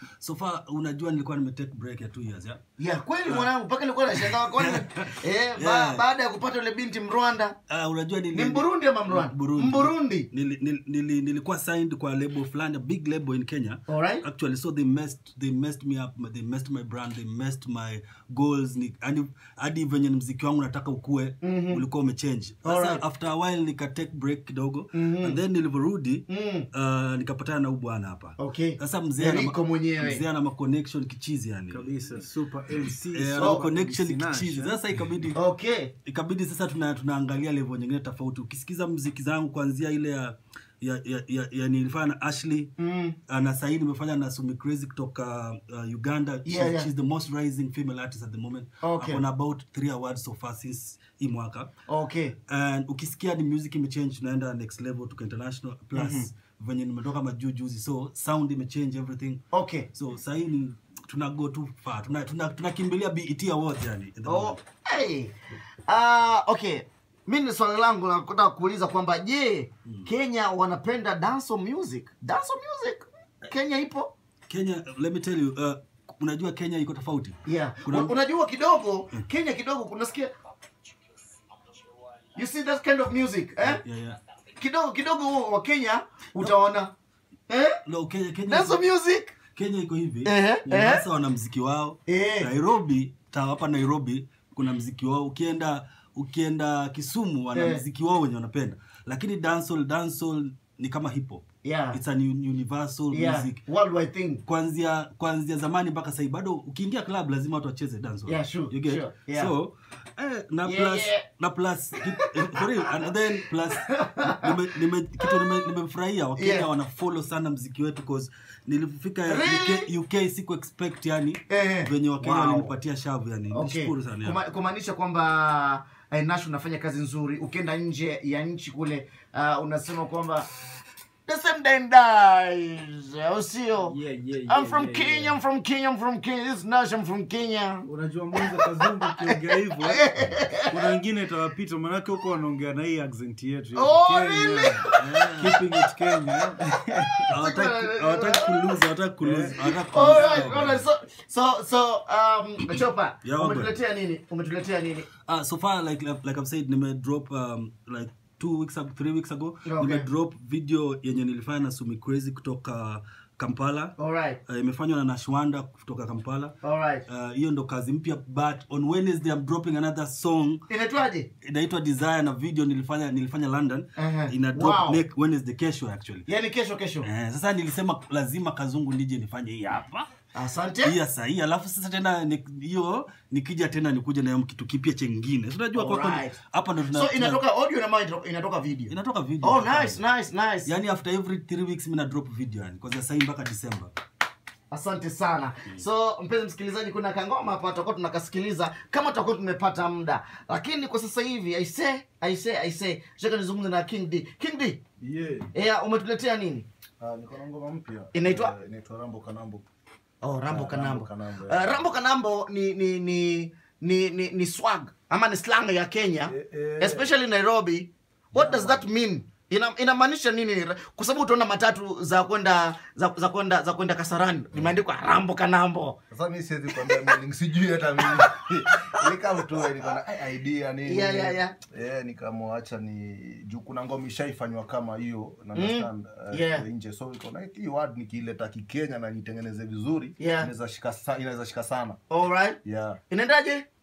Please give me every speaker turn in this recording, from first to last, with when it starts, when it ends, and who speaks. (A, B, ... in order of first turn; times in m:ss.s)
0:00.2-0:02.6 A
0:02.8-0:07.6 B
0:04.2-0:06.0 A
0:07.7-0:32.2 A
0:08.3-0:10.3 B
0:13.9-0:14.2 B
0:21.4-0:21.8 B
0:22.6-0:23.0 B
0:24.9-0:25.4 B
0:26.3-0:26.7 B
0:28.4-0:30.2 B
0:31.7-0:34.8 C
0:32.7-0:35.4 A
0:33.4-0:33.6 B
0:35.3-0:35.9 B
0:36.0-0:42.8 A
0:42.8-0:43.2 B
0:43.3-0:51.7 A
0:46.4-0:46.9 B
0:48.8-0:49.2 B
0:51.9-0:52.4 B
0:52.5-1:04.6 A
0:55.9-0:56.3 B
0:59.5-0:59.9 B
1:04.3-1:05.3 B
1:05.9-1:14.1 B
1:14.5-1:18.1 A
1:17.4-1:20.3 B
1:22.4-1:23.8 B
1:23.6-1:24.2 A
1:24.6-1:26.9 B
1:27.5-1:27.8 B
1:27.9-1:28.8 A
1:28.5-1:29.3 B
1:29.6-1:43.6 A
1:30.2-1:31.1 B
1:32.1-1:32.5 B
1:37.5-1:37.8 B
1:41.6-1:42.0 B
1:43.1-1:44.4 B
1:44.5-2:04.4 A
1:48.3-1:49.5 B
1:50.6-1:51.2 B
1:52.0-1:52.6 B
1:53.7-1:54.5 B
1:56.4-1:56.7 B
1:59.3-1:59.9 B
2:01.5-2:02.7 B
2:03.5-2:10.5 B
2:11.3-2:20.8 B
2:13.8-2:15.4 C
2:17.8-2:20.1 C
2:20.7-2:27.4 C
2:23.8-2:25.6 B
2:25.0-2:25.6 A
2:27.2-2:28.8 B
2:27.3-2:30.8 A
2:29.2-2:30.5 C
2:29.6-2:35.1 B
2:32.8-2:33.8 A
2:35.3-2:44.0 A
2:39.7-2:40.1 B
2:44.0-2:44.4 B
2:44.5-2:46.6 A
2:46.6-2:47.0 B
2:47.1-2:50.7 A
2:50.7-2:51.3 B
2:51.4-2:56.3 A
2:54.0-2:55.0 B
2:56.3-2:57.1 B
2:57.0-3:00.1 A
3:00.4-3:01.0 B
3:00.8-3:07.4 A
3:05.8-3:06.4 B
3:06.9-3:10.7 B
3:08.9-3:10.0 A
3:10.7-3:13.9 A
3:14.7-3:24.8 B
3:25.0-3:25.5 D
3:25.5-3:26.7 B
3:27.0-3:29.6 D
3:28.1-3:28.5 B
3:30.2-3:46.0 B
3:30.5-3:31.9 D
3:36.3-3:37.1 D
3:38.3-3:38.8 D
3:46.1-4:02.0 D
3:46.8-3:47.1 B
3:48.0-3:48.5 B
3:50.9-3:51.6 B
3:55.5-3:56.7 B
4:00.2-4:00.5 B
4:02.1-4:02.6 B
4:02.6-4:03.0 D
4:03.1-4:03.7 B